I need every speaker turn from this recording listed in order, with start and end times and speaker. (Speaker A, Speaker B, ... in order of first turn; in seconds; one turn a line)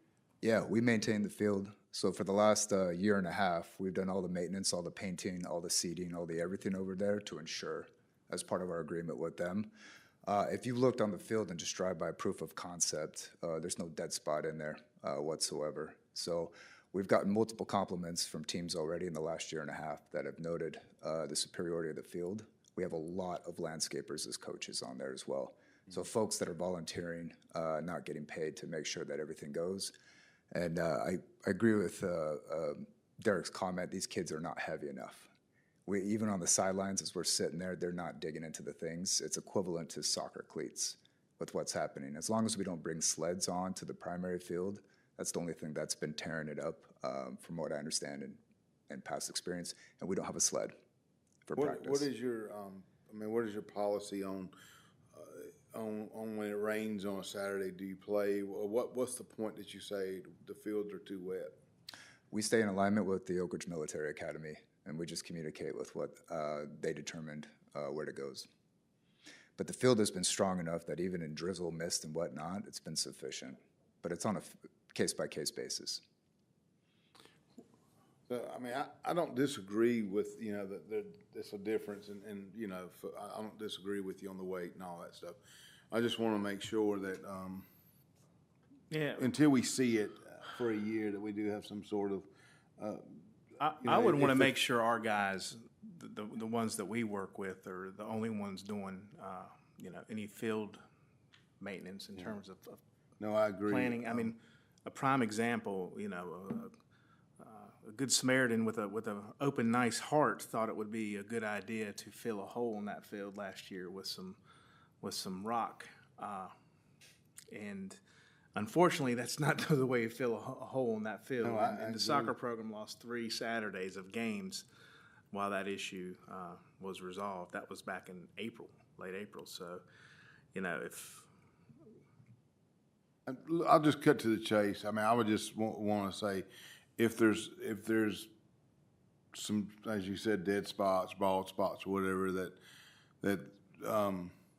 Speaker A: 0.4-9.7
Speaker A: 10.2-29.9
Speaker A: 30.5-35.3
Speaker A: 35.9-50.7
Speaker A: 51.5-52.0
Speaker B: 51.5-54.5
Speaker B: 55.1-61.5
Speaker A: 62.3-68.5
Speaker A: 69.6-76.0
Speaker B: 78.3-85.4
Speaker B: 85.9-87.7
Speaker C: 88.9-89.3
Speaker B: 89.2-92.3
Speaker B: 92.8-93.2
Speaker C: 93.6-100.8
Speaker B: 93.8-94.5
Speaker C: 101.6-102.8
Speaker B: 103.2-104.3
Speaker C: 103.7-106.7
Speaker C: 107.4-114.4
Speaker C: 115.0-116.5
Speaker C: 117.5-118.0
Speaker C: 118.5-124.6
Speaker B: 121.4-122.3
Speaker C: 125.3-129.8
Speaker C: 130.5-131.3
Speaker B: 133.3-136.5
Speaker B: 137.0-138.3
Speaker B: 139.3-142.6
Speaker B: 143.2-144.3